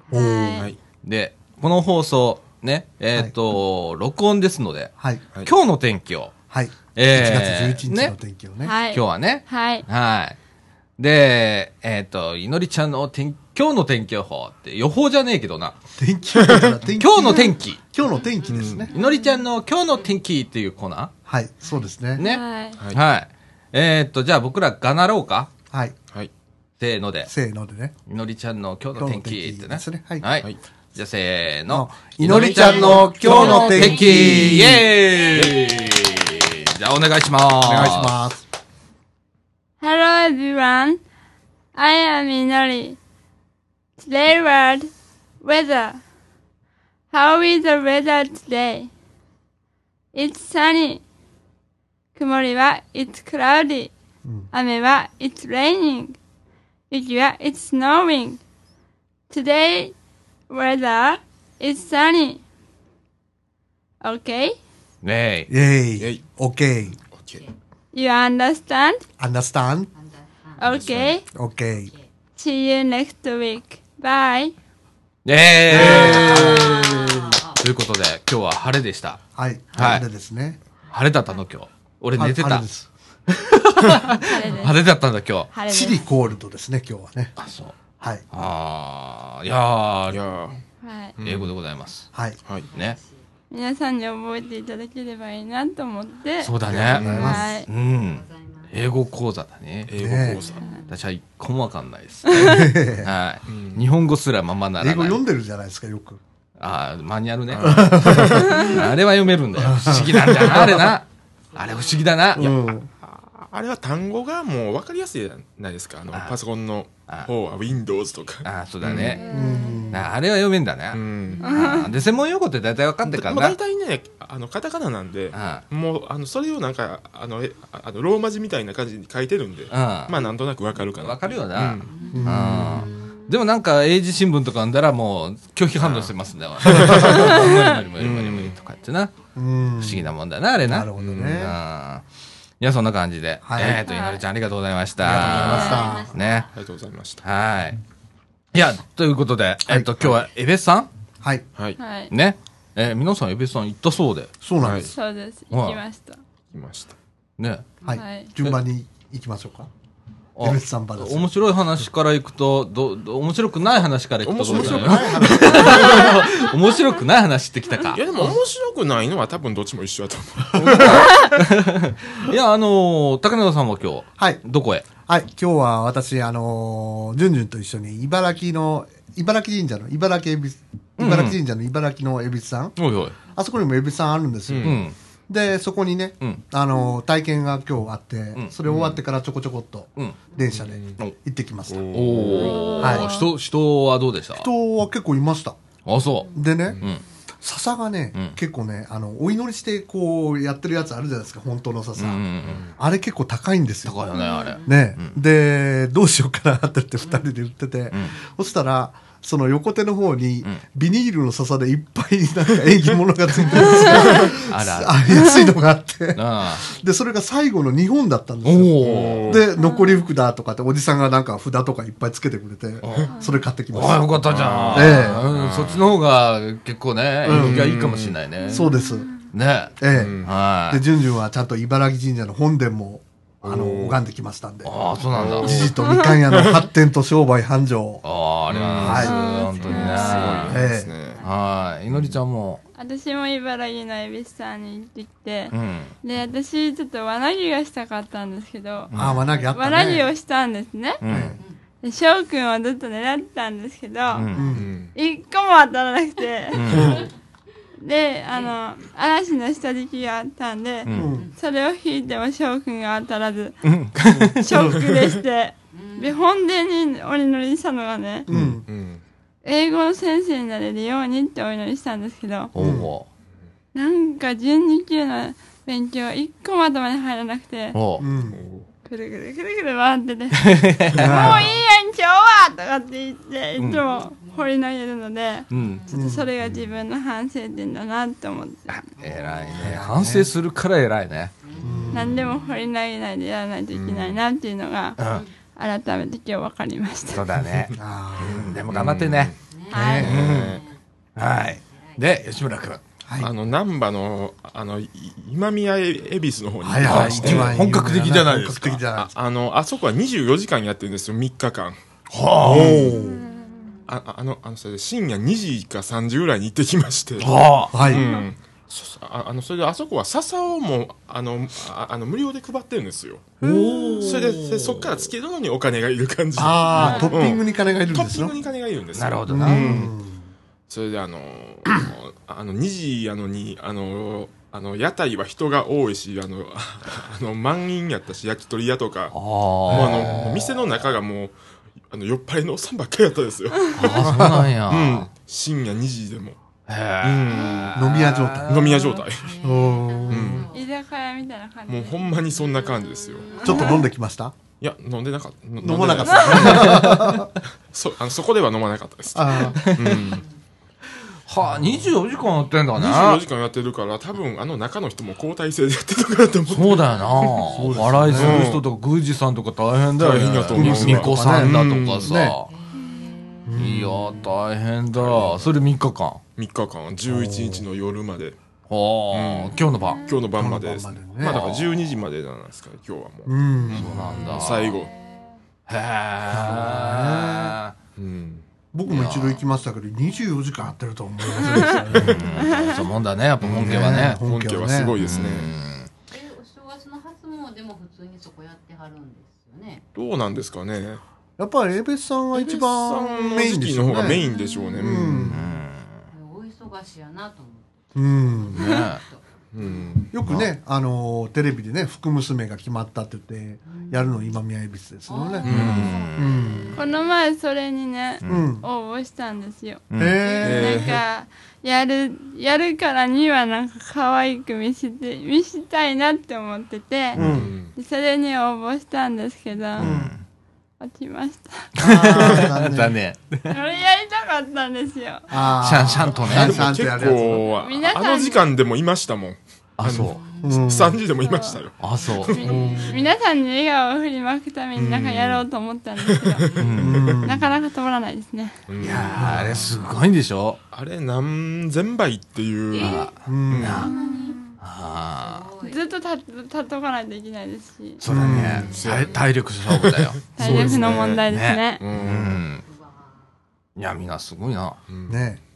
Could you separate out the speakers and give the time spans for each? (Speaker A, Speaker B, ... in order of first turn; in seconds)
Speaker A: 0.1-0.7, 8.6-9.8, 18.9-19.3, 22.2-22.8, 39.8-41.0, 41.7-43.0, 44.0-44.9, 45.4-46.0, 47.1-48.9, 50.1-51.0, 52.1-53.9, 54.5-56.2, 56.9-58.4, 59.3-59.9, 60.5-62.4, 64.0-64.6, 67.9-69.0, 70.6-71.2, 72.4-74.5, 84.2-84.9, 85.5-86.1, 90.8-91.1, 93.5-96.5, 97.0-97.7, 102.3-102.7, 108.4-108.8, 119.2-119.9, 121.4-121.9, 137.1-137.7, 143.8-144.2, 145.3-145.9, 151.8-152.1, 154.9-156.2, 157.9-158.3, 165.8-166.5, 192.5-193.3, 204.1-204.4, 213.8-214.0, 215.2-215.4, 219.5-220.1, 223.1-223.4, 228.4-229.3, 235.8-236.2, 238.9-240.5, 242.7-248.9, 249.4-251.0, 251.8-254.3, 254.9-257.0, 257.8-263.6, 264.4-268.3, 269.4-272.5, 273.7-277.8, 278.9-288.8, 291.9-295.0, 295.6-297.2, 299.7-300.1, 312.9-313.8, 317.9-318.2, 326.7-327.2, 350.5-352.2, 353.4-353.9, 356.1-356.6, 379.8-380.2, 391.4-391.8, 392.4-392.8, 404.3-404.7, 416.7-427.2, 427.7-429.9, 430.8-431.7, 433.5-435.5, 437.6-438.4, 441.2-441.6, 442.2-446.5, 447.1-448.6, 453.8-454.6, 455.6-458.0, 460.3-461.8
Speaker B: 0.1-0.7, 6.5-8.8, 16.0-18.9, 21.3-22.2, 27.2-27.9, 29.0-30.2, 31.7-34.9, 37.6-38.4, 65.5-67.0, 69.2-69.9, 71.3-71.9, 75.7-77.2, 79.3-80.6, 82.2-82.9, 85.7-87.3, 88.0-88.2, 96.7-97.6, 100.0-100.5, 102.3-103.1, 104.8-106.2, 107.6-108.7, 109.5-111.0, 112.3-112.9, 119.3-120.1, 132.1-132.9, 139.3-140.1, 140.7-141.6, 143.4-143.8, 145.0-146.1, 149.7-149.9, 154.4-154.9, 157.8-159.7, 160.4-161.3, 164.4-166.1, 170.6-171.0, 175.1-182.8, 183.3-192.2, 192.8-193.1, 194.3-195.6, 196.3-196.8, 197.4-204.1, 204.6-225.3, 227.2-227.7, 228.5-229.1, 229.8-238.0, 238.7-239.1, 240.5-240.9, 248.9-250.1, 251.0-251.4, 254.3-254.7, 256.7-257.1, 260.9-261.3, 268.3-268.6, 272.6-272.9, 278.0-278.4, 280.9-281.5, 285.9-286.3, 289.6-290.3, 291.6-292.2, 297.8-298.5, 299.7-300.4, 303.0-303.3, 306.6-309.1, 312.4-313.2, 317.7-318.1, 323.4-324.2, 326.4-328.3, 329.3-330.3, 339.7-340.4, 344.0-344.5, 347.7-348.7, 349.4-350.4, 353.4-354.4, 355.6-357.3, 359.1-359.7, 361.4-361.9, 367.5-368.6, 370.5-372.3, 373.4-374.1, 377.1-377.7, 380.3-381.4, 383.2-384.4, 386.3-387.6, 388.7-392.4, 393.4-395.0, 401.4-404.2, 404.8-405.5, 407.9-408.6, 410.1-416.8, 418.2-418.6, 420.0-420.9, 427.1-427.5, 429.8-430.1, 431.8-432.9, 435.3-437.5, 440.4-441.0, 442.5-442.9, 446.8-447.5, 449.1-449.5, 453.2-453.8, 458.1-458.7, 460.4-461.0, 465.1-465.4
Speaker C: 1.0-6.3, 6.9-8.1, 8.9-10.3, 11.0-15.8, 17.0-17.8, 18.9-21.1, 22.1-25.5, 26.8-27.3, 28.1-38.2, 65.0-65.5, 75.2-79.2, 79.8-80.0, 80.9-82.6, 83.3-85.5, 87.4-87.7, 88.3-90.2, 91.2-92.1, 96.4-99.9, 100.9-105.2, 106.6-112.5, 116.1-116.4, 118.4-119.3, 119.9-123.5, 125.3-125.6, 129.7-130.2, 131.0-139.1, 139.8-142.0, 142.6-146.5, 147.2-147.8, 148.5-150.9, 152.1-154.3, 155.5-155.8, 157.4-157.7, 160.3-168.0, 170.6-174.8, 181.0-181.4, 182.8-183.2, 184.6-184.9, 191.9-194.5, 195.8-197.0, 202.0-202.7, 203.8-205.2, 214.4-215.2, 216.1-216.7, 218.4-219.4, 222.8-223.1, 223.7-228.7, 229.3-230.8, 234.6-235.7, 238.0-240.6, 241.2-242.6, 245.5-245.9, 248.9-249.2, 251.0-251.4, 254.1-254.5, 256.5-257.0, 260.9-261.2, 263.6-264.8, 272.5-273.1, 277.7-278.0, 280.3-281.4, 283.6-283.8, 285.5-285.8, 288.7-291.3, 295.0-295.2, 297.1-299.3, 300.0-300.6, 301.1-302.8, 306.8-308.8, 312.1-313.0, 317.2-317.8, 323.4-325.1, 328.9-329.8, 339.1-340.7, 343.7-345.1, 346.7-349.0, 356.5-357.2, 359.6-360.2, 361.3-363.2, 366.5-372.5, 373.6-376.2, 378.7-380.0, 381.2-381.9, 383.7-384.8, 385.7-387.7, 388.9-389.4, 391.9-394.2, 395.0-395.9, 405.2-406.0, 408.5-409.0, 415.4-416.6, 419.9-420.2, 429.8-430.2, 431.8-433.6, 435.6-436.7, 439.8-440.2, 441.8-442.6, 446.6-447.2, 448.8-450.6, 452.7-453.9, 454.6-455.5, 458.0-462.6, 463.8-464.8
Speaker D: 16.4-16.7, 18.4-18.9, 32.3-33.7, 35.3-35.6, 67.1-67.4, 90.1-90.6, 91.2-91.5, 92.4-92.7, 96.7-97.5, 99.9-100.7, 103.5-103.8, 107.5-108.4, 112.5-119.2, 120.9-121.8, 123.0-131.9, 135.8-138.5, 141.0-141.3, 145.1-145.9, 146.5-147.2, 154.6-154.9, 156.5-156.9, 164.2-166.2, 167.9-171.4, 184.5-184.8, 188.6-189.0, 190.5-191.0, 191.7-192.7, 196.7-196.9, 202.4-202.7, 213.4-214.4, 218.8-219.4, 224.3-225.9, 227.2-228.2, 229.9-230.3, 233.4-234.0, 235.1-235.8, 236.3-236.7, 238.5-241.2, 254.5-254.9, 268.3-269.0, 278.3-278.7, 293.7-294.2, 297.5-299.4, 300.0-300.6, 303.2-307.6, 308.9-311.8, 312.4-312.9, 313.9-323.3, 324.0-329.9, 330.7-339.1, 339.7-341.4, 341.9-346.4, 347.0-347.7, 348.4-349.3, 350.1-350.5, 351.7-353.4, 354.6-360.2, 362.7-368.6, 370.0-372.1, 374.9-375.6, 376.4-378.4, 379.1-384.9, 388.0-388.4, 391.9-392.6, 393.4-395.5, 399.9-401.0, 402.3-405.4, 409.5-410.5, 415.4-416.1, 420.4-421.0, 427.1-427.7, 436.2-442.9, 444.8-445.4, 446.1-447.2, 448.7-449.8, 450.7-453.9, 458.1-461.2, 461.8-462.4, 464.9-465.2
Speaker E: 33.3-34.4, 70.0-70.9, 76.2-77.6, 92.7-93.2, 98.0-98.7, 100.6-101.0, 131.9-132.3, 132.8-133.2, 145.6-146.1, 204.3-204.7, 265.7-266.1, 285.5-286.1, 289.0-289.5, 291.4-292.4, 295.0-295.3, 299.5-300.8, 301.6-302.0, 347.3-347.7, 349.1-350.7, 352.5-353.8, 372.5-373.7, 396.1-399.8, 406.1-410.0, 413.7-414.3, 415.1-417.1, 420.2-420.6, 440.1-440.6, 442.4-442.9, 452.7-453.1, 453.7-454.6, 455.1-455.8, 458.9-459.2, 462.5-463.2